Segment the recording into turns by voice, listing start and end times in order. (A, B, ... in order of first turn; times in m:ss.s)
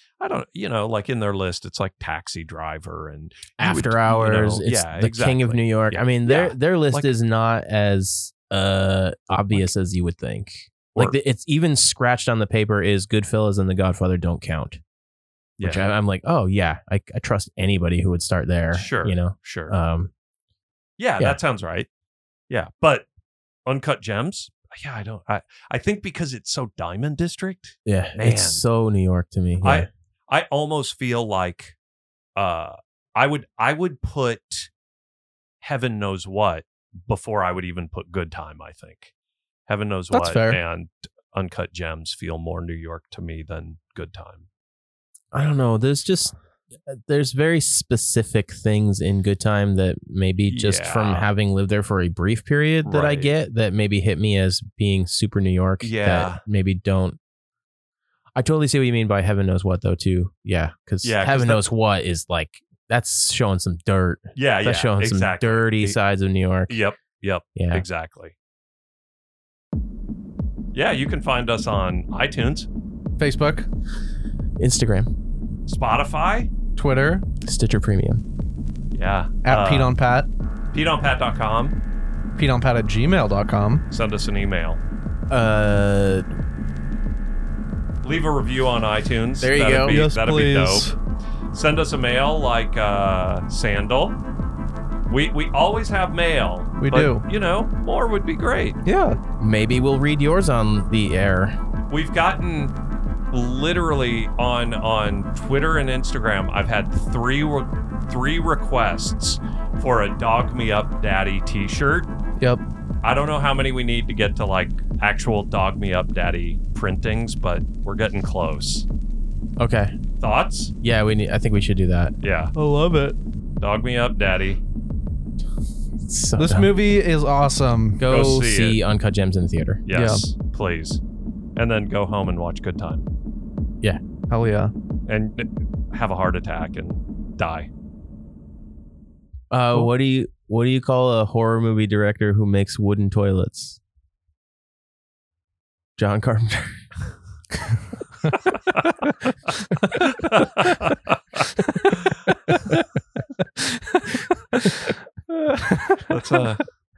0:00.2-0:07.1 A
0:03.6-0:14.8 B
0:15.6-0:15.9 A
0:15.6-0:20.1 B
0:18.7-0:19.7 A
0:21.0-0:21.9 A
0:22.5-0:23.1 A
0:23.7-0:28.6 A
0:27.9-0:29.9 B
0:29.6-0:31.8 A
0:32.4-0:34.7 A
0:35.6-0:39.1 A
0:39.7-0:44.5 A
0:40.1-0:40.6 C
0:45.3-0:46.4 B
0:46.9-0:57.2 B
0:50.5-0:51.3 A
0:52.8-0:53.4 A
0:55.8-0:56.4 A
0:58.4-1:06.8 B
1:01.0-1:01.6 A
1:04.4-1:06.0 A
1:06.7-1:08.3 A
1:07.6-1:07.8 B
1:10.7-1:12.7 A
1:13.2-1:13.7 C
1:14.6-1:15.1 B
1:15.7-1:16.5 A
1:16.8-1:17.3 C
1:17.4-1:18.2 B
1:18.9-1:19.9 A
1:19.4-1:20.3 C
1:20.7-1:21.8 A
1:22.4-1:23.8 C
1:23.9-1:24.8 A
1:25.3-1:26.3 B
1:28.0-1:30.9 A
1:29.4-1:30.0 B
1:29.9-1:31.0 C
1:31.5-1:34.2 A
1:35.1-1:38.8 A
1:36.8-1:37.2 C
1:38.8-1:39.2 C
1:39.4-1:41.6 B
1:41.9-1:42.7 A
1:43.3-1:52.1 A
1:53.0-1:58.9 A
1:59.6-2:00.0 B
2:00.2-2:00.7 A
2:00.8-2:02.1 B
2:02.2-2:02.5 A
2:02.5-2:03.2 C
2:03.6-2:04.6 A
2:06.1-2:06.7 B
2:06.4-2:08.3 C
2:08.0-2:09.8 B
2:08.1-2:08.8 A
2:09.9-2:11.0 A
2:09.9-2:10.3 C
2:11.6-2:13.0 A
2:14.3-2:14.7 C
2:15.1-2:17.7 A
2:19.5-2:23.8 B
2:26.0-2:26.8 B
2:30.0-2:32.1 A
2:33.6-2:34.7 C
2:35.3-2:36.1 C
2:36.1-2:36.7 A